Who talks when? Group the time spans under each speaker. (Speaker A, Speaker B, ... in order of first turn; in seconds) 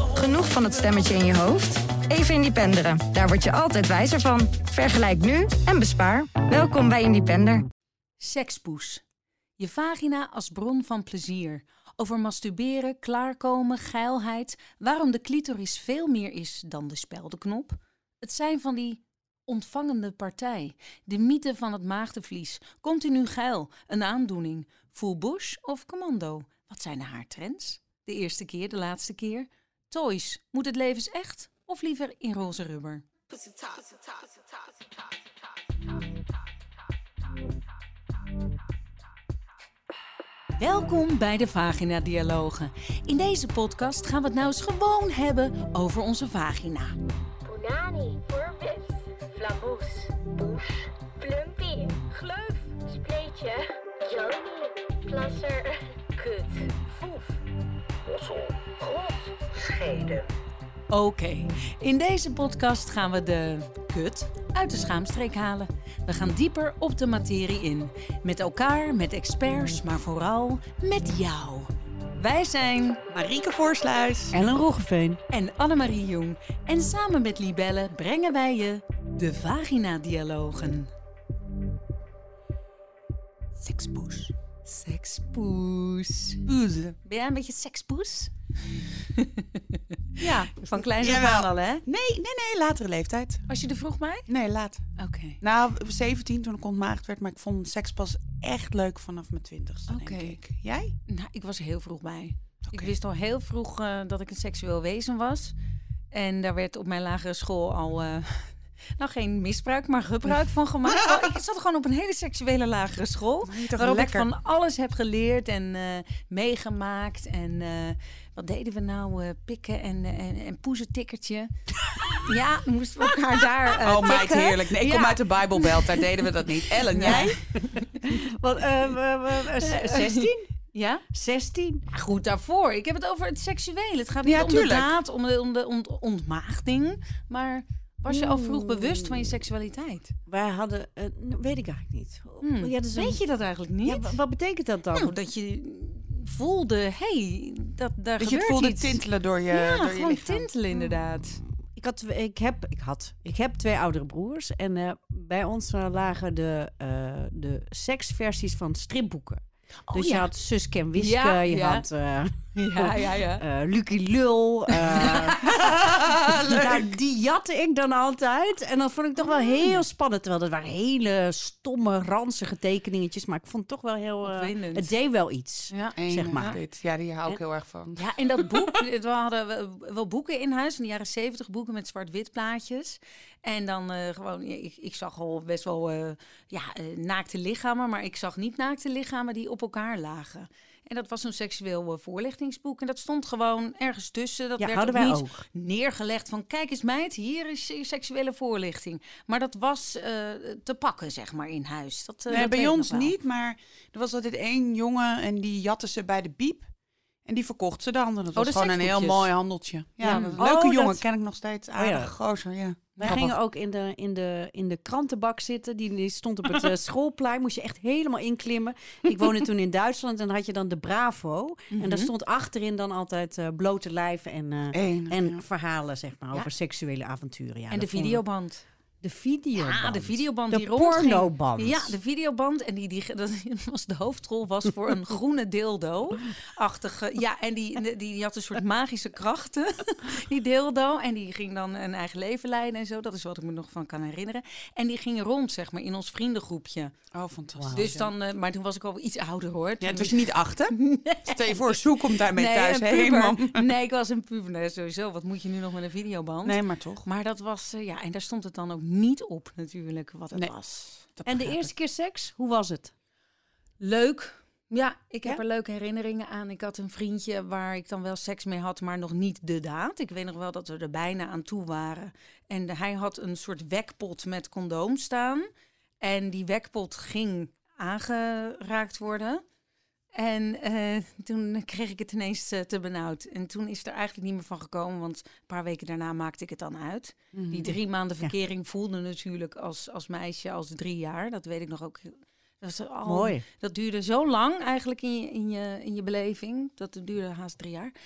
Speaker A: 0.1-7.7
Speaker B: 8.2-9.0, 9.6-33.0, 40.6-47.0, 60.9-73.0, 75.3-80.9, 84.7-86.4, 87.0-88.3, 89.1-91.8, 93.5-94.3, 95.0-95.4, 99.9-100.4, 101.1-105.5, 106.1-121.5, 122.2-126.0, 126.8-127.9, 129.6-131.1, 131.9-140.2, 142.4-144.2, 144.9-151.4, 159.9-160.3, 161.0-161.8, 162.6-163.4, 164.9-165.4, 169.3-169.8, 174.2-174.9, 175.7-176.6, 178.0-203.1, 208.3-209.3, 210.0-210.4, 221.7-222.1, 227.7-228.6, 229.6-246.9, 247.7-260.8, 263.8-275.5, 276.0-279.4, 280.1-297.9
Speaker C: 33.3-34.7, 47.4-57.4, 58.1-60.3
Speaker D: 73.1-74.4, 83.6-84.3, 86.5-87.0, 91.0-93.4, 94.3-94.8, 95.4-100.9, 110.9-111.3, 113.5-114.3, 123.7-128.0, 134.2-135.0, 148.2-150.5, 165.4-166.9, 176.0-178.0, 202.3-206.7, 207.2-213.4, 224.7-225.4, 247.1-248.1, 249.8-253.7, 256.4-257.1, 260.3-261.7, 287.3-287.8
Speaker E: 74.3-75.2, 128.1-130.5, 131.1-131.9, 138.1-139.3, 140.3-143.2, 143.8-145.1, 151.8-165.7, 166.4-176.6, 194.6-195.4, 210.0-211.1, 211.8-212.1, 213.0-228.2, 229.0-231.9, 247.6-247.9, 261.3-262.9, 293.1-293.4